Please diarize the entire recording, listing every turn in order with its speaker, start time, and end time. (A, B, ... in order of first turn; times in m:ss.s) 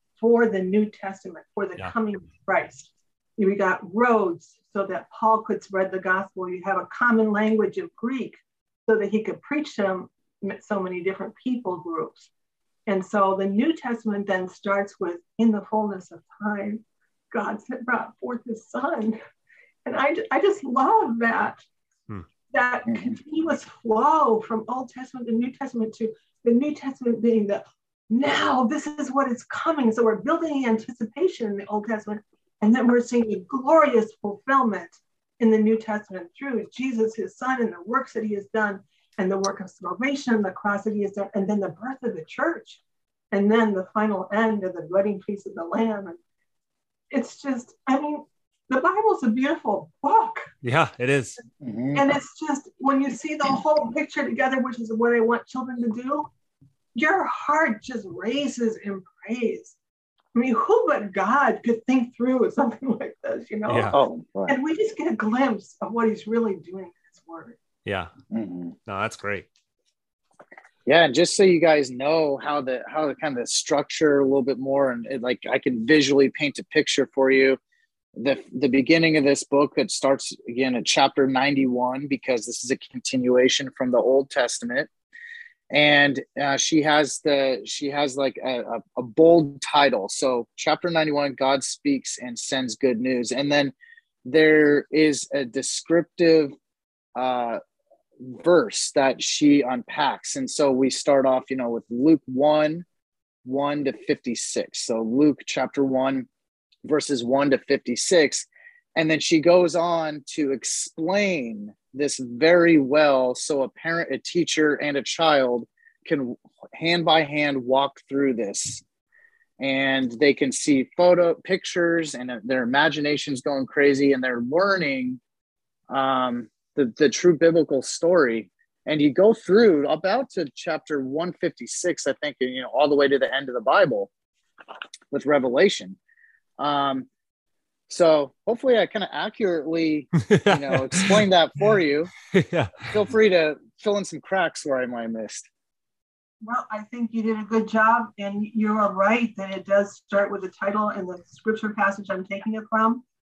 0:00.2-0:12.3 A
0:12.9-0:19.2 A
0:19.8-0:21.6 A
0:22.5-0:42.8 A
0:22.9-0:23.1 B
0:43.3-0:46.2 A
0:47.1-0:50.5 A
0:50.6-0:51.4 C
0:51.6-0:52.0 B
0:51.9-0:56.3 A
0:56.9-0:59.8 A
1:00.3-1:03.9 A
1:03.7-1:04.0 C
1:03.9-1:04.6 B
1:04.5-1:07.6 A
1:07.8-1:08.1 C
1:08.3-1:08.7 B
1:08.9-1:09.4 C
1:10.8-1:17.6 B
1:18.2-1:24.9 B
1:25.7-1:33.7 B
1:34.2-1:36.5 B
1:37.2-1:37.6 B
1:38.2-1:42.8 B
1:43.4-1:46.3 B
1:46.8-1:58.8 B
1:59.6-2:05.2 B
2:05.9-2:14.1 B
2:15.1-2:16.0 B
2:16.6-2:17.1 B
2:17.9-2:22.1 B
2:20.3-2:21.2 C
2:22.3-2:22.9 C
2:22.8-2:25.5 B
2:26.4-2:33.0 A